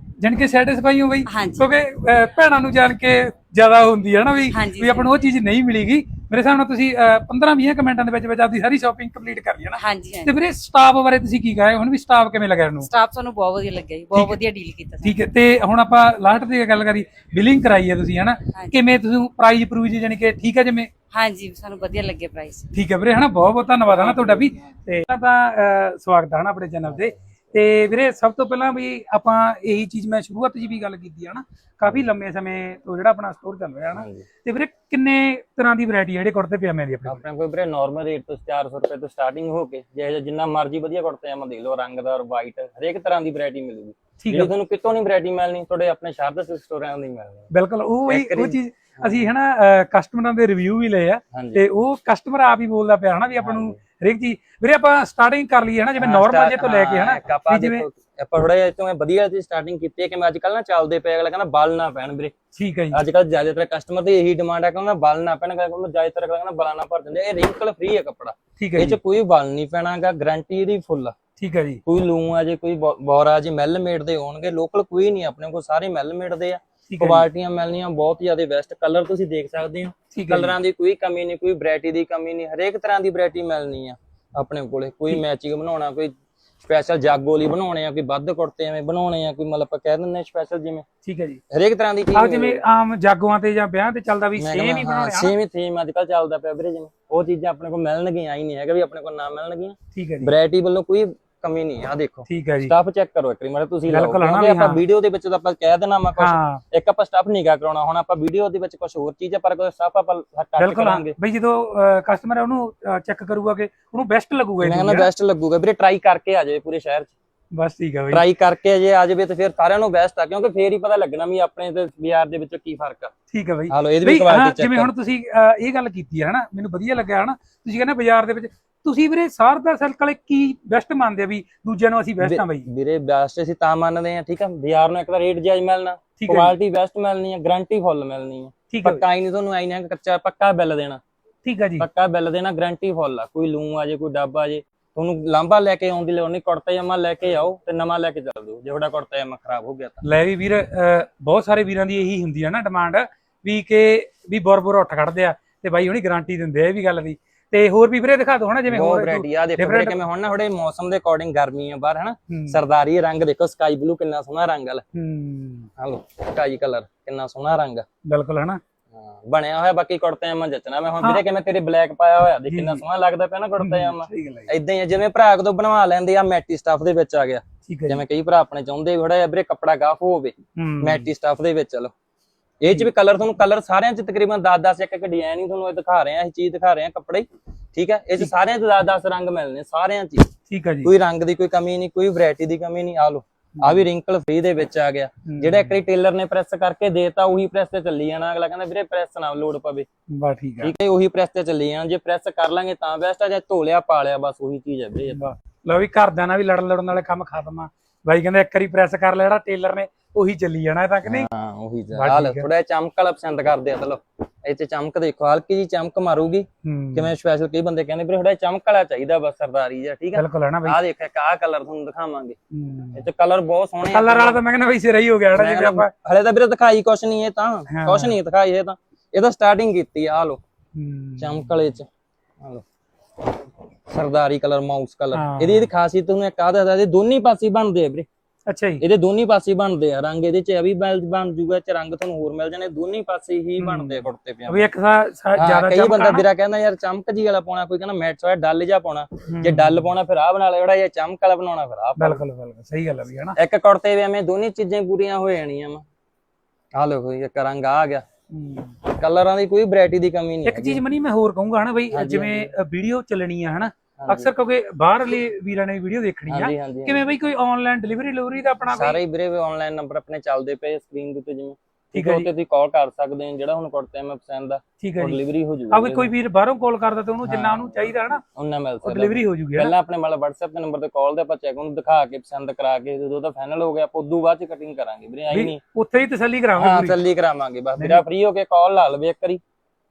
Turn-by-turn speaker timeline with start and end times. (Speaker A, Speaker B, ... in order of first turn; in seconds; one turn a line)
Speaker A: 0.2-12.9
Speaker B: 1.3-1.7
Speaker B: 4.5-5.2
Speaker B: 9.8-10.4
Speaker B: 12.8-15.2
Speaker A: 15.0-20.9
Speaker B: 21.1-22.7
Speaker A: 22.7-37.2
Speaker C: 33.9-34.3
Speaker C: 37.1-47.5
Speaker A: 44.2-44.5
Speaker A: 47.5-57.9
Speaker C: 48.1-49.3
Speaker C: 51.3-51.6
Speaker C: 53.4-53.8
Speaker C: 56.0-62.4
Speaker A: 62.6-63.0
Speaker C: 62.9-71.2
Speaker A: 68.6-69.0
Speaker A: 71.4-71.8
Speaker C: 71.9-86.1
Speaker A: 76.9-77.3
Speaker A: 80.1-80.6
Speaker C: 86.7-90.8
Speaker A: 91.0-91.4
Speaker C: 91.5-92.6
Speaker A: 92.2-95.3
Speaker C: 94.4-111.2
Speaker A: 100.0-100.3
Speaker A: 102.3-102.7
Speaker A: 103.9-104.8
Speaker A: 106.2-106.6
Speaker A: 110.6-115.1
Speaker C: 114.6-117.1
Speaker A: 117.5-118.2
Speaker C: 118.1-123.1
Speaker A: 123.3-132.7
Speaker C: 123.7-124.9
Speaker C: 132.2-141.0
Speaker A: 136.2-136.6
Speaker A: 138.7-139.1
Speaker A: 141.4-141.9
Speaker C: 141.8-150.0
Speaker A: 150.1-160.0
Speaker C: 158.7-164.8
Speaker A: 162.3-162.6
Speaker A: 164.9-165.7
Speaker C: 165.8-167.8
Speaker A: 168.1-168.6
Speaker C: 168.9-181.9
Speaker A: 172.5-172.8
Speaker A: 173.6-174.5
Speaker A: 177.7-178.0
Speaker A: 180.6-181.1
Speaker C: 182.6-190.3
Speaker A: 190.5-190.9
Speaker C: 190.8-199.9
Speaker A: 195.3-195.8
Speaker A: 200.1-200.7
Speaker C: 200.6-205.2
Speaker A: 205.2-211.3
Speaker C: 211.1-222.4
Speaker A: 212.0-212.5
Speaker A: 216.6-217.1
Speaker A: 220.2-220.8
Speaker A: 222.5-223.0
Speaker C: 222.9-224.4
Speaker A: 223.9-225.9
Speaker C: 225.3-230.4
Speaker A: 227.7-228.2
Speaker A: 230.8-231.5
Speaker C: 231.2-231.9
Speaker C: 232.4-232.7
Speaker C: 233.9-238.1
Speaker A: 235.1-235.7
Speaker A: 238.5-238.8
Speaker C: 238.8-244.7
Speaker A: 243.6-246.3
Speaker C: 245.4-252.2
Speaker A: 249.3-249.9
Speaker A: 252.0-253.4
Speaker C: 253.4-255.8
Speaker C: 256.8-258.0
Speaker A: 258.3-258.7
Speaker C: 258.9-260.8
Speaker A: 260.4-269.0
Speaker C: 261.9-262.5
Speaker C: 264.0-264.3
Speaker C: 266.3-267.0
Speaker C: 268.7-276.1
Speaker A: 271.9-272.3
Speaker A: 274.8-278.2
Speaker C: 277.3-285.6
Speaker A: 278.8-279.7
Speaker A: 285.3-287.0
Speaker C: 286.6-289.4
Speaker A: 287.8-288.0